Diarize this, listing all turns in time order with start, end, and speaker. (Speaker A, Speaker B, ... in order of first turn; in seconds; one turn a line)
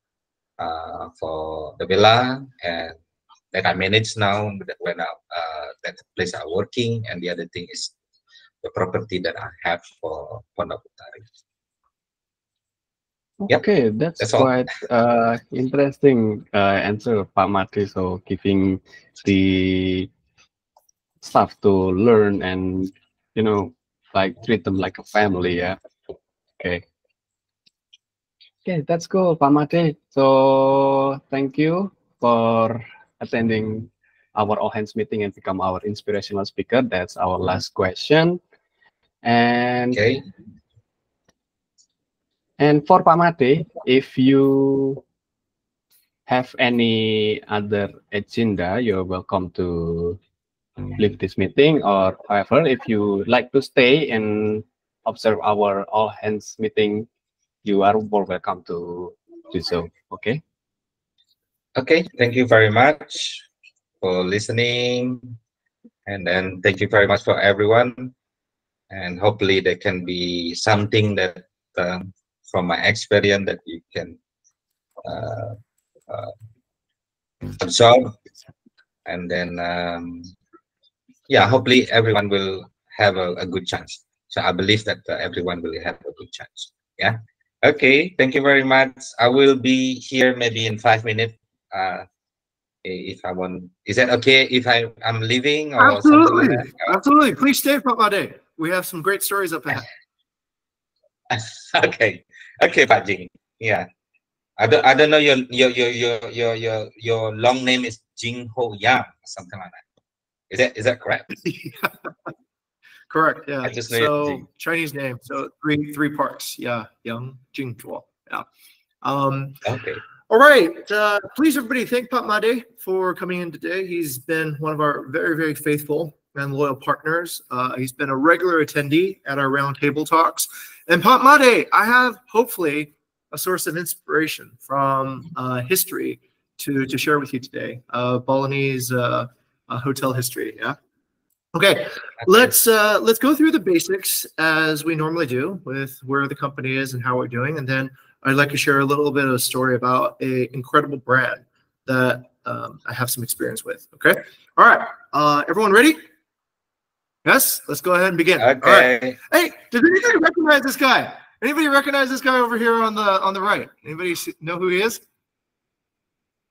Speaker A: 0.6-3.0
Speaker A: 3.5-7.9
Speaker A: 8.6-11.2
Speaker B: 13.4-20.1
Speaker A: 14.2-14.5
Speaker B: 21.2-25.8
Speaker B: 26.6-26.8
Speaker B: 28.6-38.4
Speaker B: 39.2-40.0
Speaker A: 39.9-40.2
Speaker B: 42.6-45.0
Speaker B: 46.3-50.2
Speaker B: 51.0-57.1
Speaker B: 57.6-60.4
Speaker A: 61.8-63.5
Speaker A: 64.0-65.3
Speaker A: 66.1-68.1
Speaker A: 68.9-74.2
Speaker A: 75.0-75.6
Speaker A: 77.6-78.2
Speaker A: 79.1-80.3
Speaker A: 81.3-92.1
Speaker A: 92.8-96.9
Speaker C: 95.8-99.9
Speaker A: 101.3-103.9
Speaker A: 104.6-109.8
Speaker A: 110.5-111.3
Speaker C: 111.4-112.0
Speaker C: 113.1-118.5
Speaker A: 113.6-114.5
Speaker C: 119.0-119.6
Speaker A: 119.7-120.0
Speaker C: 120.3-140.8
Speaker C: 141.5-156.0
Speaker C: 157.2-165.0
Speaker A: 158.4-159.2